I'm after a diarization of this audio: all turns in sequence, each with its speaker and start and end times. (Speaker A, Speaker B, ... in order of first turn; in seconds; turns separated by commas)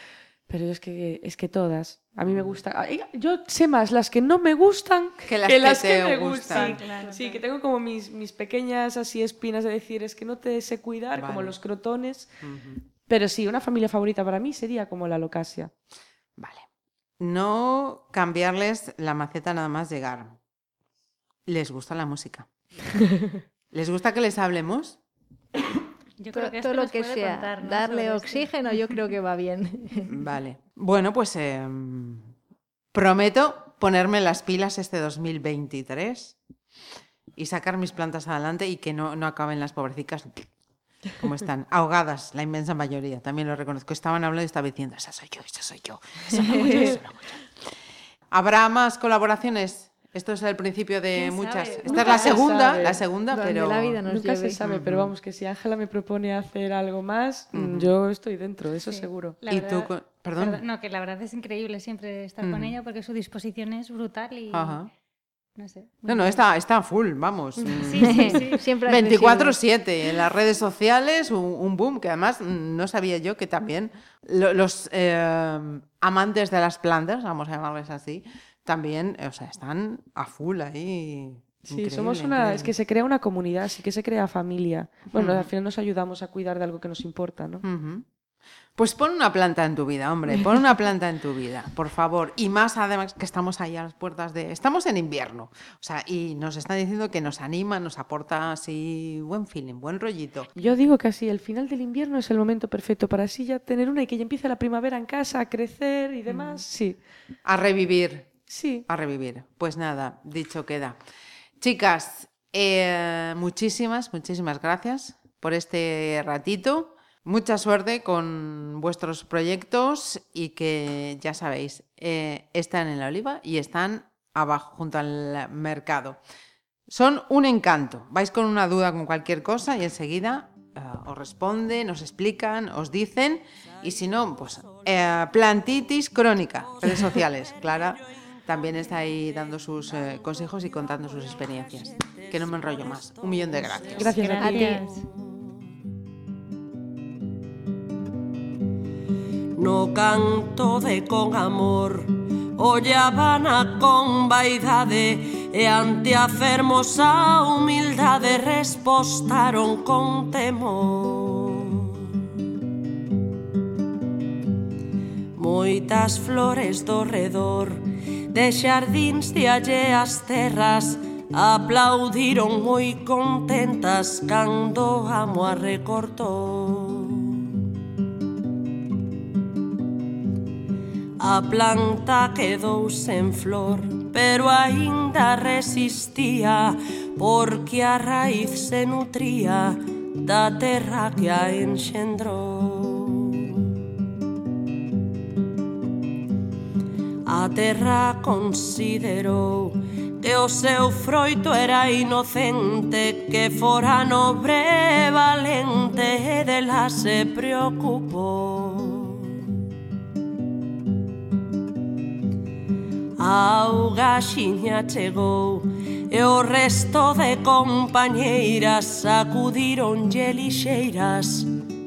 Speaker A: 0.5-12.4, Speaker B: 2.2-2.6, Speaker B: 5.3-6.8, Speaker C: 6.4-7.4, Speaker B: 11.1-11.6, Speaker B: 12.4-12.8, Speaker A: 13.0-15.7, Speaker B: 16.4-16.7, Speaker B: 17.2-20.4, Speaker B: 21.4-22.5, Speaker B: 23.7-25.0, Speaker C: 26.2-28.5, Speaker D: 26.3-30.1, Speaker B: 30.1-32.3, Speaker B: 32.9-36.4, Speaker B: 37.4-40.5, Speaker B: 41.2-47.4, Speaker D: 46.5-46.9, Speaker B: 48.3-54.0, Speaker C: 51.1-52.5, Speaker A: 51.9-53.0, Speaker D: 53.3-54.6, Speaker A: 54.0-59.4, Speaker B: 54.6-55.1, Speaker B: 57.5-57.9, Speaker C: 58.8-64.8, Speaker B: 59.5-60.6, Speaker B: 62.4-62.7, Speaker B: 64.5-64.9, Speaker C: 65.5-66.4, Speaker B: 66.0-82.7, Speaker C: 67.8-68.6, Speaker D: 67.9-69.5, Speaker A: 81.7-87.6, Speaker B: 85.1-85.5, Speaker B: 87.6-88.0, Speaker B: 88.8-100.5, Speaker A: 100.5-107.0, Speaker B: 107.4-111.0, Speaker A: 108.5-108.8, Speaker B: 111.6-126.2, Speaker B: 126.9-144.1, Speaker E: 133.8-135.8, Speaker E: 136.4-145.5, Speaker A: 143.9-144.8, Speaker C: 144.0-145.0, Speaker D: 144.4-144.8, Speaker E: 149.6-162.1, Speaker E: 165.3-177.5, Speaker E: 181.2-193.6, Speaker E: 197.2-209.4, Speaker E: 213.2-221.6